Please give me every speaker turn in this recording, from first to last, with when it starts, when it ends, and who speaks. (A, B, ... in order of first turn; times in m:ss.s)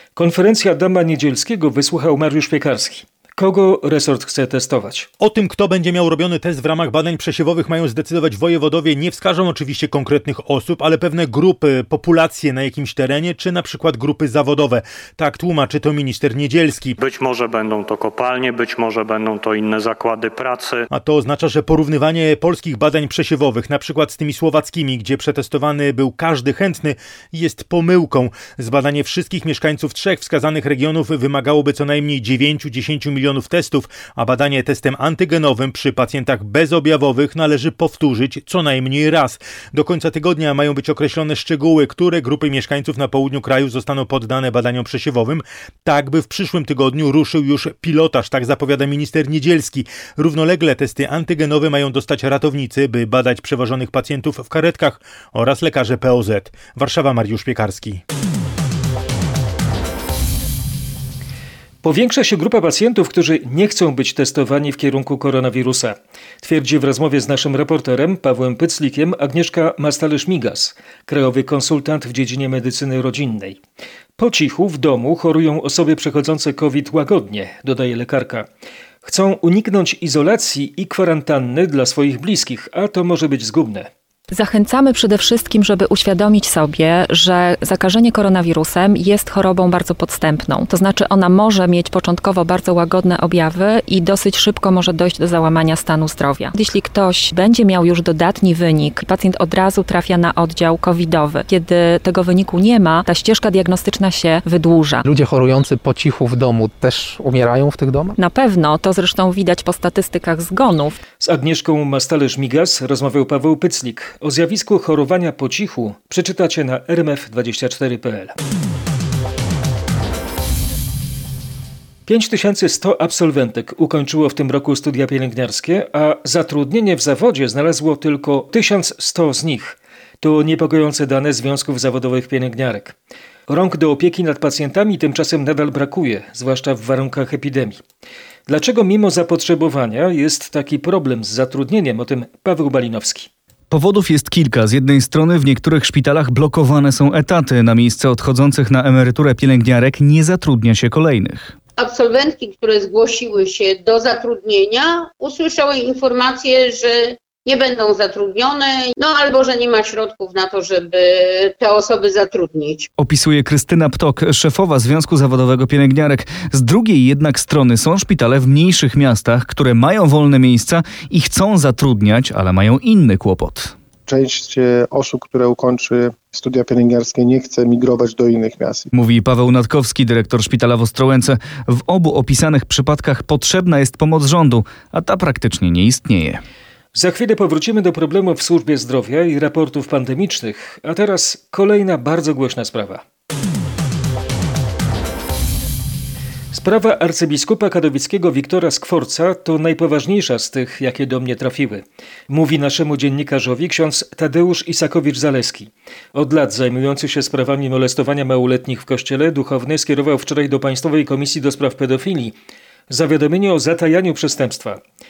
0:00.2-0:05.1 A
0:05.2-0:17.0 B
0:17.2-0:20.6 C
0:20.9-0:58.0 B
1:01.8-1:13.6 A
1:14.2-1:18.5 A
1:19.0-1:23.9 A
1:24.3-1:45.0 D
1:45.1-1:48.1 E
1:48.2-1:51.0 D
1:51.2-1:58.3 A
2:02.1-2:13.0 A
2:13.5-2:17.8 A
2:18.5-2:23.3 A
2:23.7-2:31.6 F
2:31.8-2:42.9 G
2:43.0-2:53.7 F
2:54.1-2:58.9 H
2:58.9-3:06.4 F
3:07.0-3:13.0 A
3:16.5-3:32.3 A
3:32.9-3:34.8 A